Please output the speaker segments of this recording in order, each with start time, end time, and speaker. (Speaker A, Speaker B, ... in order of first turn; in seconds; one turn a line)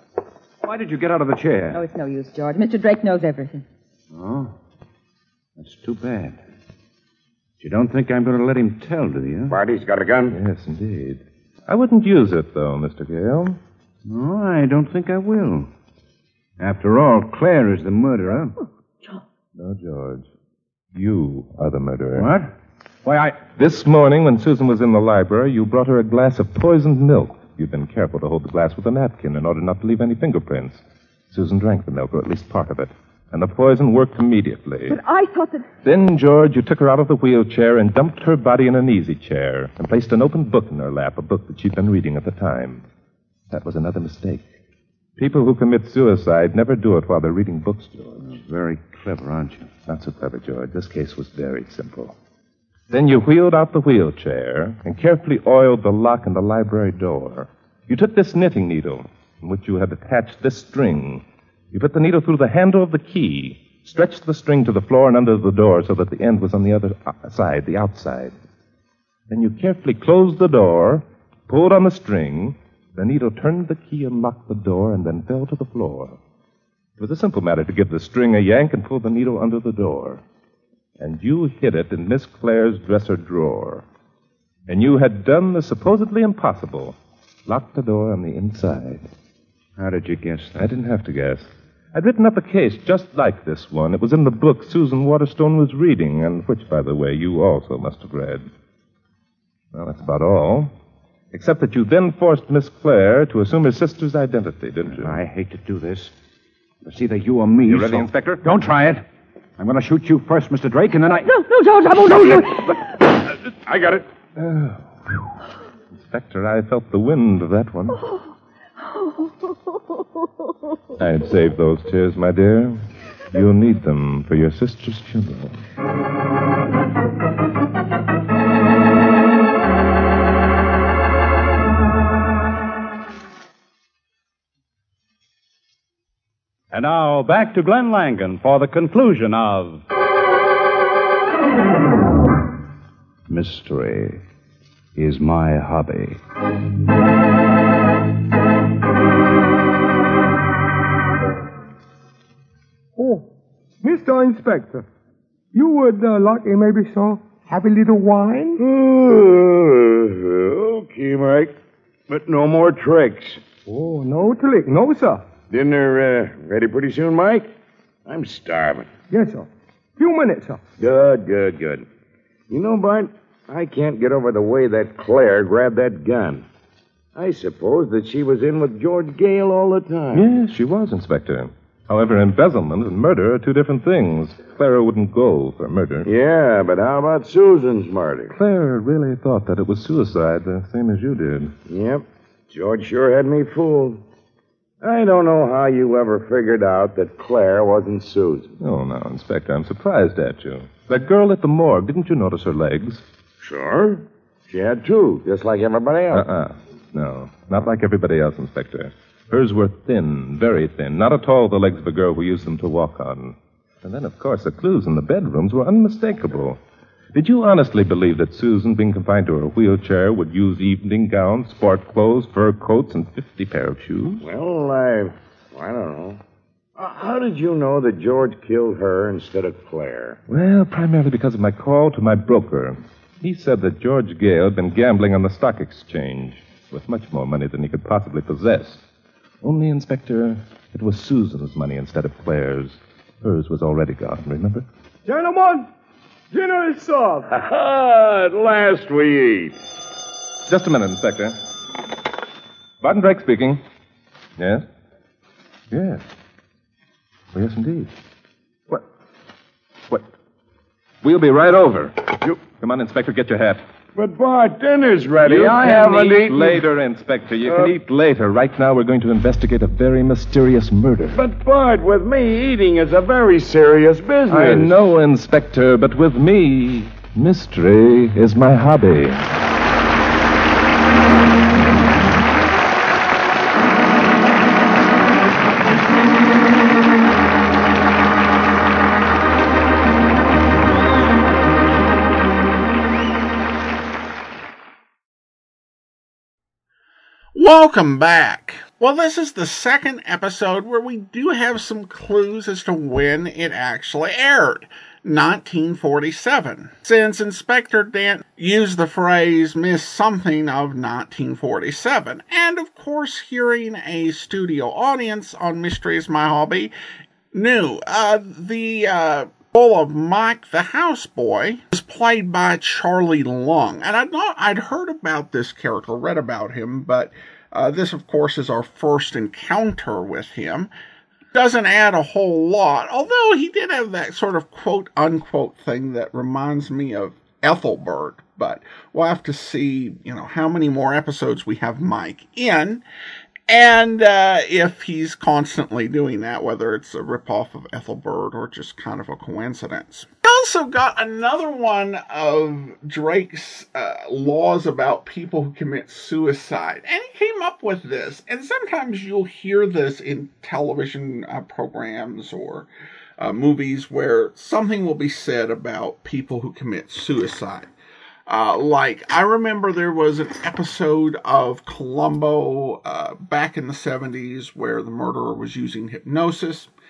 Speaker A: 0.6-1.8
Speaker B: 1.7-3.6
Speaker A: 4.1-4.5
Speaker A: 5.6-6.4
Speaker A: 7.6-9.6
Speaker C: 9.5-10.4
Speaker D: 10.3-13.6
Speaker A: 14.1-15.7
Speaker A: 16.6-18.6
Speaker D: 19.6-20.3
Speaker D: 20.9-22.3
Speaker A: 22.2-22.5
Speaker A: 23.1-23.4
Speaker D: 23.5-35.0
Speaker B: 34.9-35.7
Speaker D: 35.8-42.9
Speaker D: 43.5-44.4
Speaker D: 45.2-48.4
Speaker A: 48.2-49.7
Speaker D: 49.9-52.1
Speaker D: 52.9-68.3
Speaker D: 69.3-76.2
Speaker D: 77.0-80.2
Speaker D: 81.0-83.8
Speaker D: 84.7-89.1
Speaker A: 89.8-90.7
Speaker D: 90.6-98.5
Speaker D: 99.7-100.7
Speaker D: 101.3-105.2
Speaker A: 104.9-106.1
Speaker A: 106.8-109.0
Speaker D: 107.7-108.5
Speaker A: 109.6-111.3
Speaker B: 111.3-112.7
Speaker C: 113.5-114.1
Speaker D: 114.4-115.3
Speaker D: 115.9-118.0
Speaker B: 118.9-119.3
Speaker D: 121.0-125.6
Speaker A: 136.7-139.8
Speaker A: 143.3-144.2
Speaker A: 145.0-146.2
Speaker E: 153.0-153.3
Speaker E: 153.8-154.8
Speaker E: 155.5-158.6
Speaker C: 158.6-161.6
Speaker C: 162.1-163.4
Speaker E: 163.7-165.2
Speaker C: 165.5-167.5
Speaker C: 168.1-168.9
Speaker E: 169.1-170.6
Speaker C: 170.8-171.8
Speaker C: 172.5-176.5
Speaker C: 177.2-180.3
Speaker D: 180.1-186.1
Speaker C: 186.1-188.3
Speaker D: 188.3-191.6
Speaker C: 191.7-194.0
Speaker C: 194.8-198.6
Speaker D: 198.6-203.0
Speaker C: 203.4-206.3
Speaker D: 206.1-216.6
Speaker D: 217.1-224.2
Speaker C: 224.2-226.2
Speaker C: 226.8-230.2
Speaker D: 230.3-238.8
Speaker D: 239.4-244.7
Speaker E: 245.1-245.7
Speaker E: 246.3-247.3
Speaker C: 247.3-249.6
Speaker D: 250.5-251.4
Speaker D: 252.8-253.6
Speaker D: 254.4-254.7
Speaker D: 255.7-256.1
Speaker D: 257.3-257.9
Speaker D: 261.0-263.6
Speaker C: 263.9-266.6
Speaker D: 265.2-271.2
Speaker C: 271.1-274.7
Speaker D: 274.3-279.3
Speaker F: 297.4-316.7
Speaker F: 317.3-330.7
Speaker F: 331.3-342.8
Speaker F: 343.5-362.7
Speaker F: 363.2-367.7
Speaker F: 368.3-376.7